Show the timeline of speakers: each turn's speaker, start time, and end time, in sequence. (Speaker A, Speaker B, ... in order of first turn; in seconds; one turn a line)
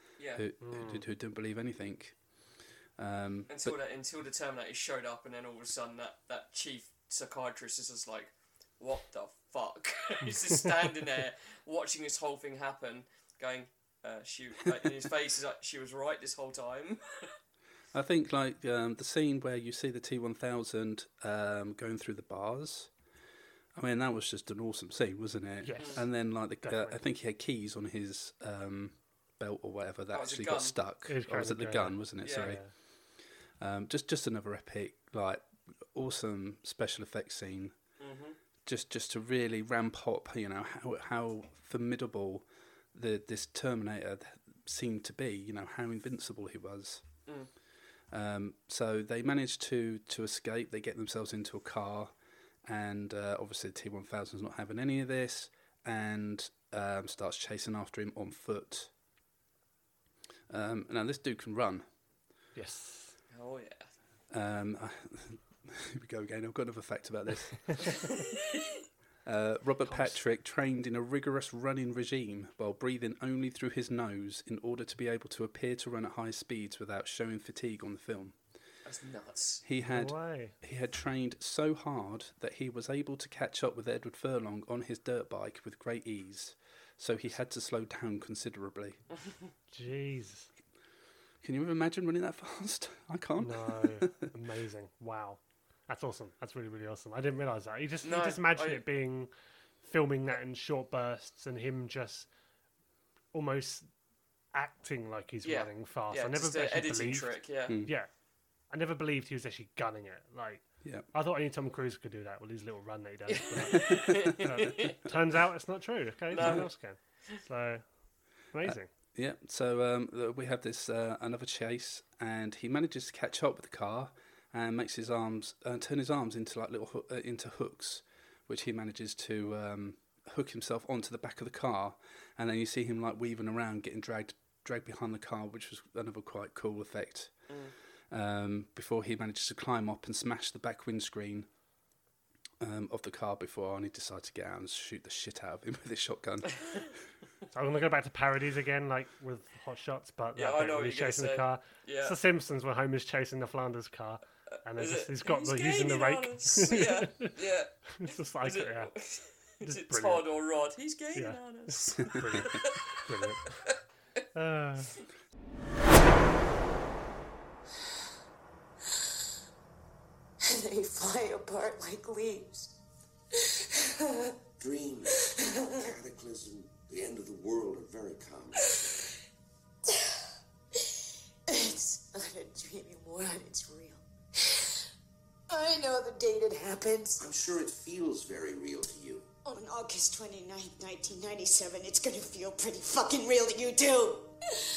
Speaker A: 0.2-0.4
Speaker B: 0.3-3.8
Speaker C: 0.6-1.0
Speaker A: 3.5-17.3
Speaker B: 17.9-22.9
Speaker B: 23.7-37.8
Speaker C: 25.6-27.0
Speaker A: 25.8-26.0
Speaker A: 30.1-30.8
Speaker C: 31.1-32.7
Speaker A: 32.2-32.6
Speaker A: 38.0-38.4
Speaker B: 38.6-47.1
Speaker A: 47.2-47.5
Speaker B: 48.1-58.9
Speaker B: 60.5-61.9
Speaker C: 62.5-63.1
Speaker A: 63.3-63.9
Speaker B: 64.3-68.0
Speaker A: 68.4-68.7
Speaker B: 69.2-78.4
Speaker C: 69.8-70.2
Speaker A: 78.8-79.6
Speaker B: 79.6-89.0
Speaker C: 79.8-80.5
Speaker A: 89.2-89.5
Speaker C: 89.7-90.5
Speaker B: 91.4-94.2
Speaker C: 93.4-99.3
Speaker A: 98.0-98.8
Speaker C: 99.8-102.3
Speaker C: 103.3-103.9
Speaker C: 104.5-108.1
Speaker A: 105.4-107.8
Speaker B: 107.7-107.9
Speaker C: 108.7-118.9
Speaker B: 110.8-111.1
Speaker A: 113.3-115.0
Speaker B: 113.8-114.1
Speaker A: 116.3-116.7
Speaker B: 116.3-116.7
Speaker B: 118.6-137.5
Speaker A: 137.5-137.7
Speaker B: 138.1-141.5
Speaker B: 142.6-146.9
Speaker C: 147.5-157.3
Speaker A: 150.3-152.2
Speaker A: 154.8-163.0
Speaker C: 158.0-158.9
Speaker C: 159.6-160.2
Speaker C: 161.1-163.6
Speaker C: 164.3-164.9
Speaker D: 170.5-172.7
Speaker E: 174.6-175.2
Speaker D: 175.1-175.4
Speaker E: 175.8-178.6
Speaker D: 181.5-184.0
Speaker D: 185.5-187.2
Speaker E: 187.2-189.3
Speaker D: 189.4-194.3